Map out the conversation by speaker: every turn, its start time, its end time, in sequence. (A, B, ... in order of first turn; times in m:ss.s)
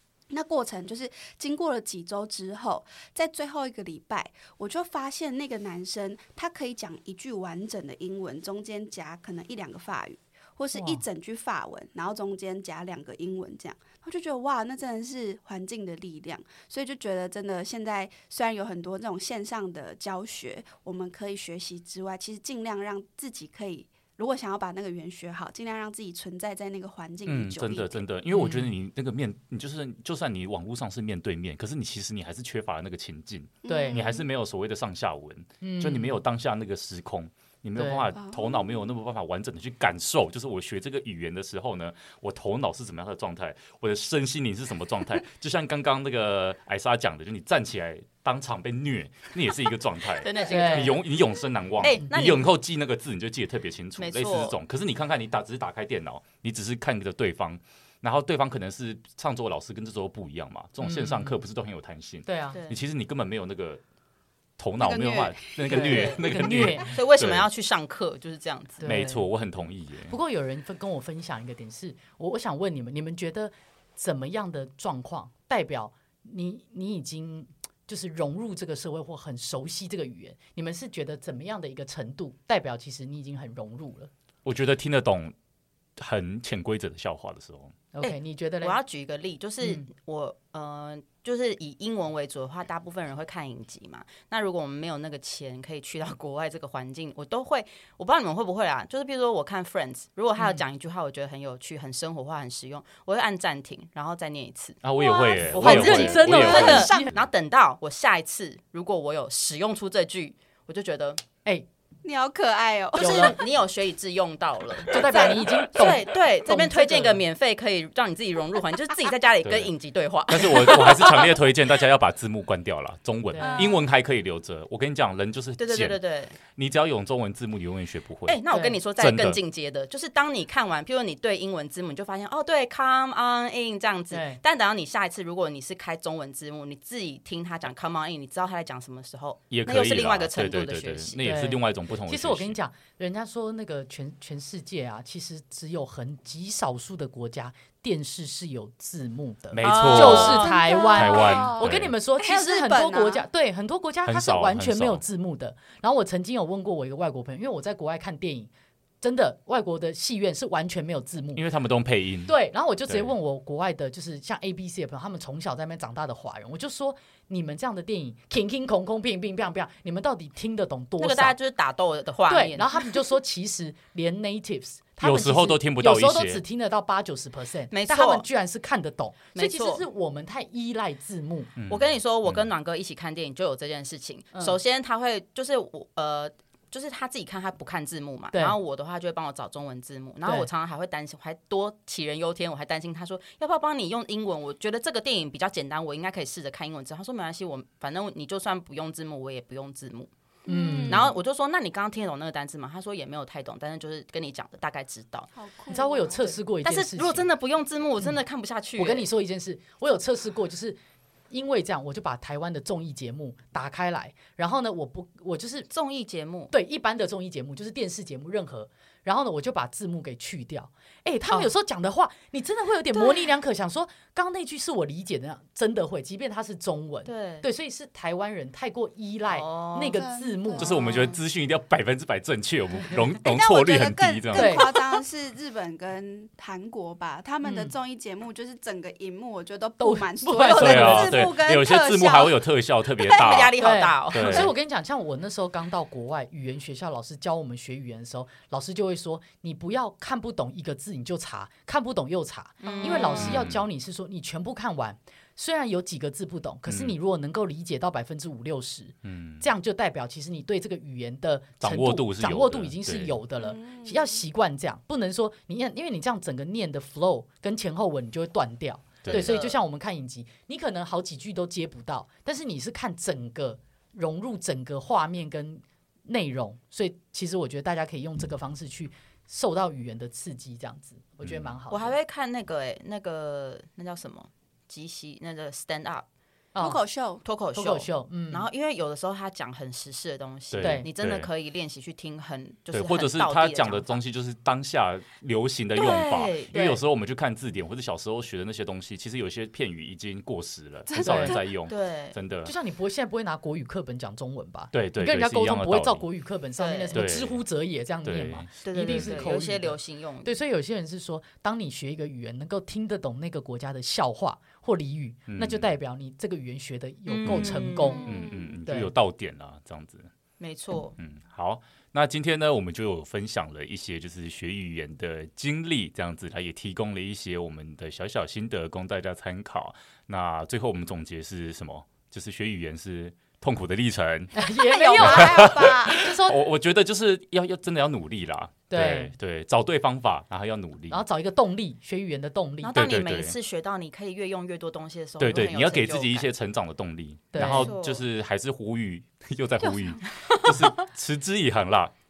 0:00.3-0:28.0 A
0:10.7-0:11.0 B
0:27.2-1:03.8 C
0:28.3-0:28.7 B
0:33.6-0:34.2 A
0:33.7-0:34.2 B
0:35.6-0:36.2 B
0:37.8-0:38.1 B
0:38.3-0:38.6 A
0:50.2-0:51.1 D
0:50.5-0:51.0 B
0:51.8-0:52.5 D
0:54.0-0:54.6 D
1:00.8-1:01.4 B
1:02.2-1:02.6 B
1:02.5-1:02.8 D
1:04.6-1:07.5 C
1:04.8-1:06.1 A
1:05.7-1:06.9 B
1:05.7-1:08.8 D
1:08.8-1:09.2 B
1:08.8-1:10.2 C
1:10.1-1:24.1 B
1:24.4-1:25.3 C
1:26.0-1:27.7 C
1:27.9-1:28.8 B
1:28.0-1:44.8 D
1:40.4-1:40.6 B
1:44.8-1:47.3 C
1:45.0-1:47.1 A
1:45.3-1:51.2 D
1:45.5-1:47.1 B
1:52.0-1:53.4 A
1:53.0-2:01.3 D
1:53.0-1:53.4 B
1:54.9-1:57.2 B
1:55.0-1:55.4 A
1:59.4-1:59.7 C
2:00.3-2:08.4 C
2:03.3-2:03.7 B
2:03.4-2:03.8 A
2:05.6-2:06.4 D
2:08.2-2:21.2 D
2:08.5-2:08.8 B
2:09.0-2:09.4 C
2:14.1-2:14.4 B
2:19.5-2:22.6 C
2:21.2-2:41.4 B
2:29.5-2:31.9 C
2:29.6-2:30.6 D
2:30.0-2:33.2 A
2:34.0-2:35.0 C
2:41.3-2:42.3 C
2:42.2-2:51.4 B
2:42.9-2:43.1 C
2:51.0-2:52.9 D
2:52.3-3:01.5 B
2:55.0-2:56.4 C
2:57.7-2:58.2 D
2:59.3-2:59.8 D
3:01.6-3:02.5 C
3:01.7-3:20.1 D
3:20.4-3:21.1 A
3:20.5-3:21.1 B
3:20.8-3:25.3 D
3:25.3-3:26.4 A
3:25.7-3:27.3 B
3:26.6-3:29.1 D
3:28.8-3:30.8 B
3:31.3-3:35.7 B
3:35.7-3:36.5 D
3:36.5-3:50.8 B
3:47.0-3:47.4 D
3:49.3-3:50.0 D
3:49.8-3:51.1 A
3:50.6-3:54.8 C
3:53.2-4:02.4 A
3:54.3-3:54.7 B
3:57.4-3:57.7 B
3:59.8-4:01.3 B
4:00.6-4:04.5 C
4:03.0-4:03.4 A
4:03.1-4:04.5 D
4:03.6-4:42.0 B
4:12.6-4:13.5 D
4:13.1-4:13.6 C
4:16.7-4:17.0 C
4:19.0-4:19.5 C
4:21.6-4:23.1 C
4:23.4-4:24.2 A
4:29.0-4:29.4 C
4:29.0-4:29.6 D
4:41.2-4:41.5 C
4:41.7-4:46.0 D
4:46.5-4:46.8 B
4:46.6-4:47.2 A
4:47.2-4:54.0 D
4:47.5-4:48.5 B
4:50.5-4:51.3 C
4:50.6-4:50.9 B
4:52.7-5:02.5 C
4:55.7-4:56.6 D
4:56.5-4:56.8 B
5:00.9-5:01.4 A
5:01.0-5:01.4 B
5:01.7-5:02.2 D
5:02.4-5:18.0 B
5:04.7-5:06.0 C
5:06.6-5:07.1 D
5:06.9-5:07.4 C
5:08.0-5:09.2 C
5:08.6-5:10.3 D
5:15.3-5:15.7 C
5:17.0-5:18.2 D
5:17.2-5:20.1 C
5:17.9-5:18.5 A
5:18.6-5:18.9 B
5:20.4-5:21.0 D
5:21.0-5:34.4 C
5:34.3-5:36.4 B
5:34.6-5:36.1 A
5:35.0-5:41.0 C
5:38.7-5:39.1 B
5:40.9-5:42.8 B
5:42.6-5:46.3 D
5:42.7-5:43.4 C
5:45.2-5:51.9 C
5:47.3-5:47.7 B
5:47.4-5:48.0 D
5:50.3-5:50.7 D